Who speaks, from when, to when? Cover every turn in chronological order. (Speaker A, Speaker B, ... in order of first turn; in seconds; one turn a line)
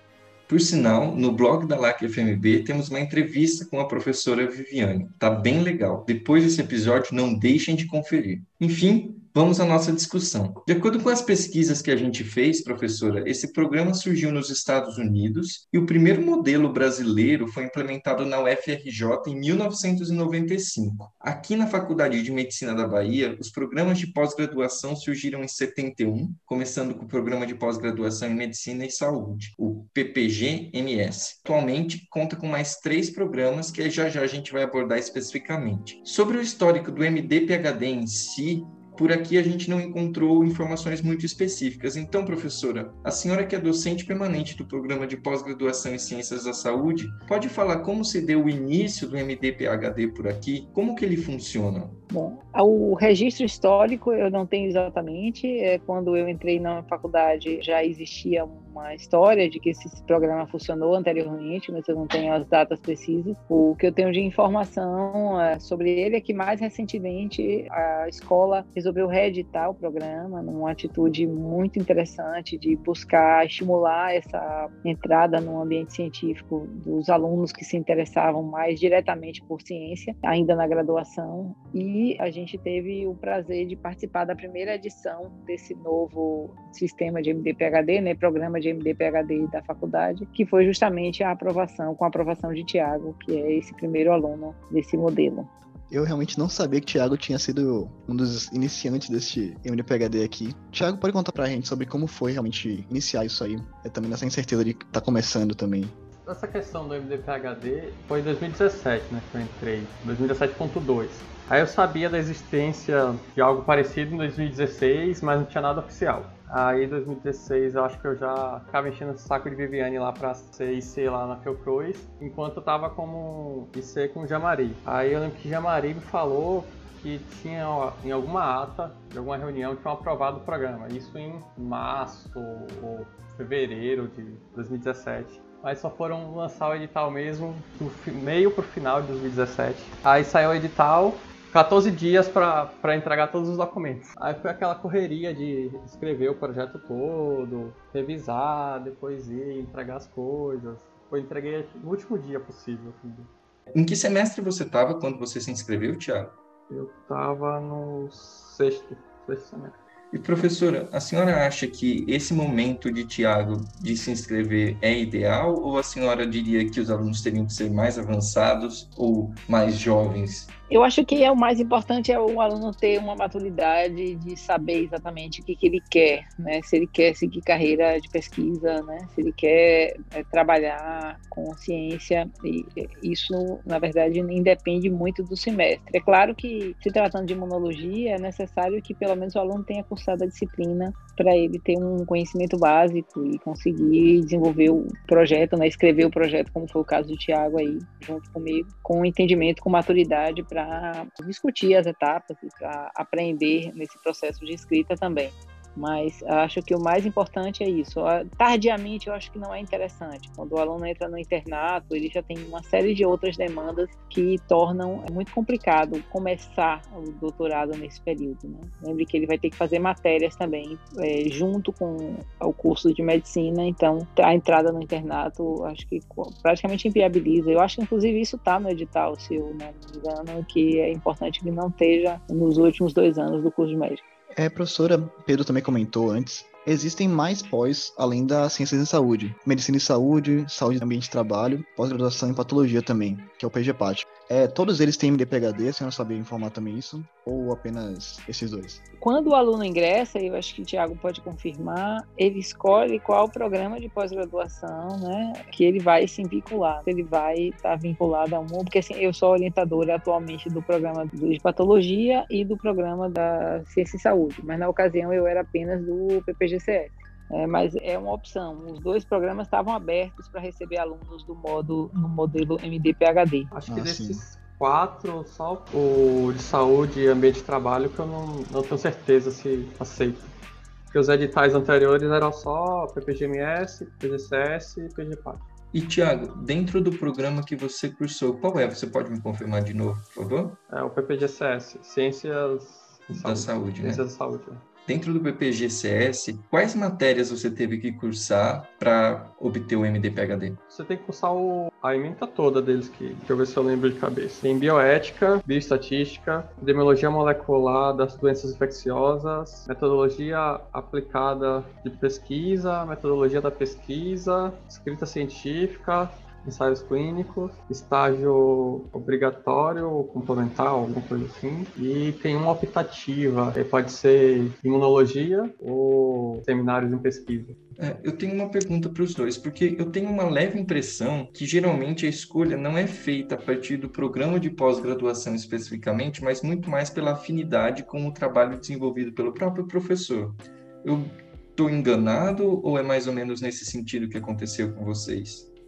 Speaker A: 0.5-52.0
Speaker B: 52.1-95.5
Speaker C: 95.9-105.9
Speaker D: 106.2-153.3
Speaker A: 153.7-156.4
Speaker D: 156.7-159.8
Speaker A: 160.1-170.5
Speaker B: 170.7-234.0
Speaker C: 234.3-248.8
Speaker B: 249.0-273.5
Speaker D: 273.5-280.3
Speaker C: 273.7-274.2
Speaker D: 280.9-285.4
Speaker A: 285.7-290.6
Speaker D: 290.7-294.6
Speaker A: 293.1-294.0
Speaker A: 294.9-300.6
Speaker D: 300.7-327.6
Speaker A: 327.8-345.5